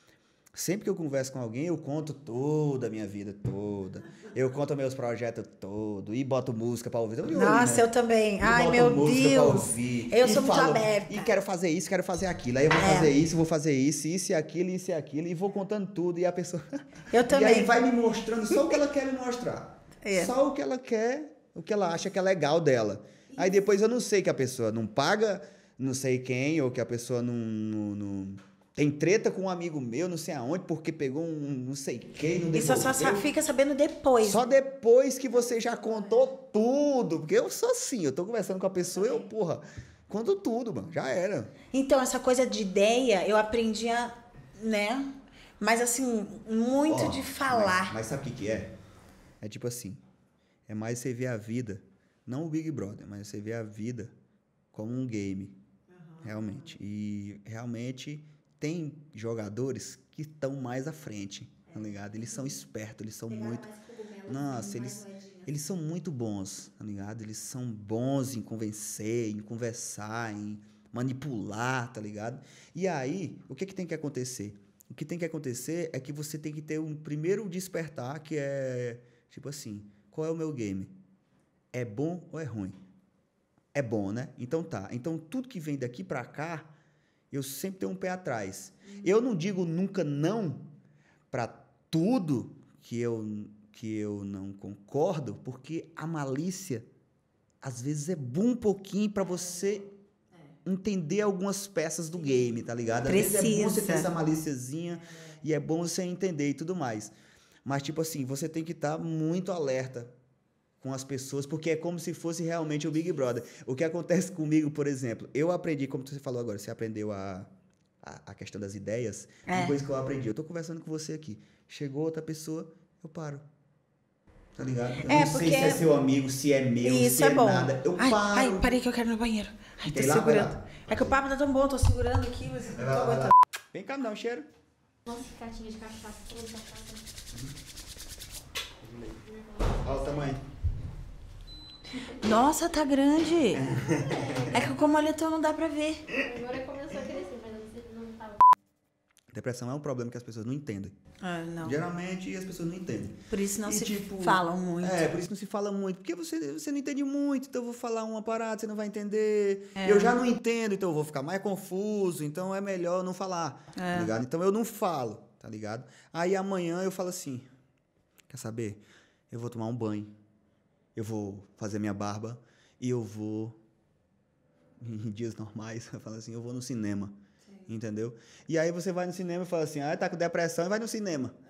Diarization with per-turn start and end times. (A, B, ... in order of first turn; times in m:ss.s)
0:00.5-0:07.9 A
0:07.3-0:11.3 B
0:08.4-0:33.2 A
0:12.7-0:13.1 B
0:17.1-0:17.7 B
0:20.0-0:20.3 B
0:23.3-0:23.6 B
0:32.5-0:34.4 B
0:34.2-0:41.5 A
0:41.7-0:48.0 B
0:46.9-0:48.7 A
0:49.4-0:50.0 A
0:50.7-0:54.1 A
0:54.7-0:55.6 A
0:56.2-1:03.7 A
1:03.4-1:05.4 B
1:04.2-1:20.9 A
1:21.7-1:22.8 A
1:23.7-1:26.7 A
1:27.3-1:30.7 A
1:31.3-1:36.8 A
1:37.6-1:39.9 A
1:40.6-1:47.1 A
1:43.0-1:44.1 B
1:47.6-1:50.1 A
1:50.8-1:57.5 A
1:58.0-2:03.4 A
1:59.5-1:59.8 B
2:04.6-2:08.7 A
2:05.0-2:05.9 B
2:06.8-2:13.3 B
2:09.8-2:11.2 A
2:12.7-2:14.4 A
2:15.0-2:17.0 C
2:18.8-2:20.4 A
2:22.1-2:23.7 B
2:23.5-2:24.7 A
2:24.1-2:24.4 C
2:24.5-2:26.1 B
2:26.2-2:28.4 C
2:29.3-2:30.9 A
2:31.2-2:31.8 B
2:31.6-2:47.5 A
2:33.3-2:35.1 B
2:39.8-2:40.1 B
2:43.7-2:44.1 B
2:48.3-2:50.1 A
2:50.9-2:53.6 A
2:54.8-3:01.4 A